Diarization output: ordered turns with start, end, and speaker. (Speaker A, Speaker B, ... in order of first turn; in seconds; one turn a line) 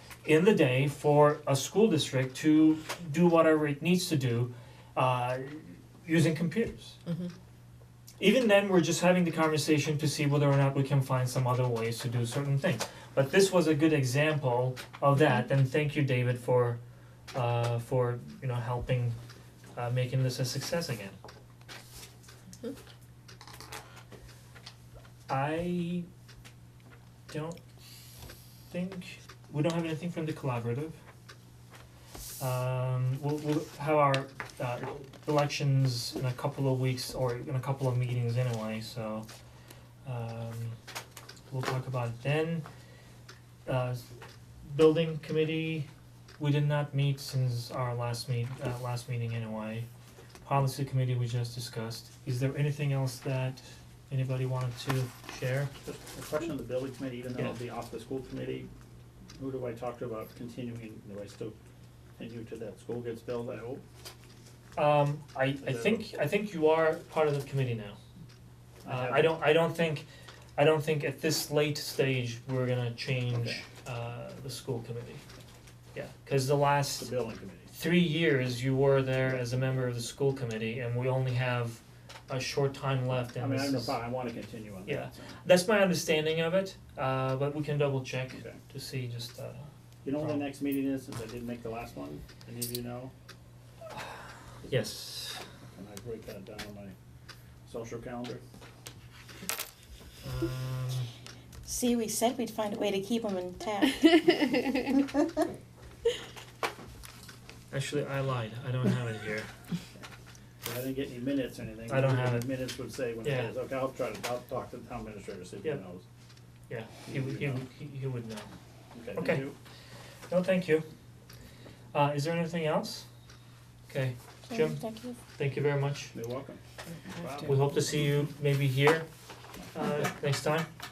Speaker A: 0.2-7.0
Speaker A: 8.2-16.8
Speaker A: 17.3-19.2
Speaker A: 19.8-21.2
Speaker A: 25.3-26.1
Speaker A: 27.3-27.6
Speaker A: 28.7-31.0
Speaker A: 32.4-39.3
Speaker A: 40.0-40.8
Speaker A: 41.5-42.6
Speaker A: 43.7-44.0
Speaker A: 44.6-45.9
Speaker A: 46.4-49.9
Speaker A: 50.4-55.7
Speaker B: 55.8-58.7
Speaker B: 59.4-61.5
Speaker B: 62.2-63.8
Speaker A: 64.8-68.0
Speaker B: 65.6-66.0
Speaker B: 68.8-69.4
Speaker A: 68.9-75.2
Speaker B: 73.3-73.6
Speaker A: 76.0-77.1
Speaker B: 77.0-77.7
Speaker A: 77.7-84.0
Speaker B: 83.4-85.3
Speaker A: 84.9-89.7
Speaker B: 88.3-88.6
Speaker B: 90.0-93.1
Speaker A: 90.2-90.5
Speaker A: 94.7-95.4
Speaker B: 95.8-97.0
Speaker B: 97.7-98.4
Speaker A: 100.2-101.1
Speaker C: 101.7-105.0
Speaker A: 107.7-109.5
Speaker B: 110.6-116.0
Speaker A: 111.9-112.5
Speaker A: 113.2-113.5
Speaker A: 116.7-118.5
Speaker B: 117.1-117.7
Speaker B: 118.9-119.6
Speaker A: 119.2-119.5
Speaker A: 120.3-120.9
Speaker A: 121.9-123.1
Speaker A: 123.9-124.8
Speaker C: 124.5-125.2
Speaker A: 125.3-126.1
Speaker B: 126.1-126.6
Speaker B: 127.1-127.6
Speaker A: 127.4-129.1
Speaker A: 129.7-130.7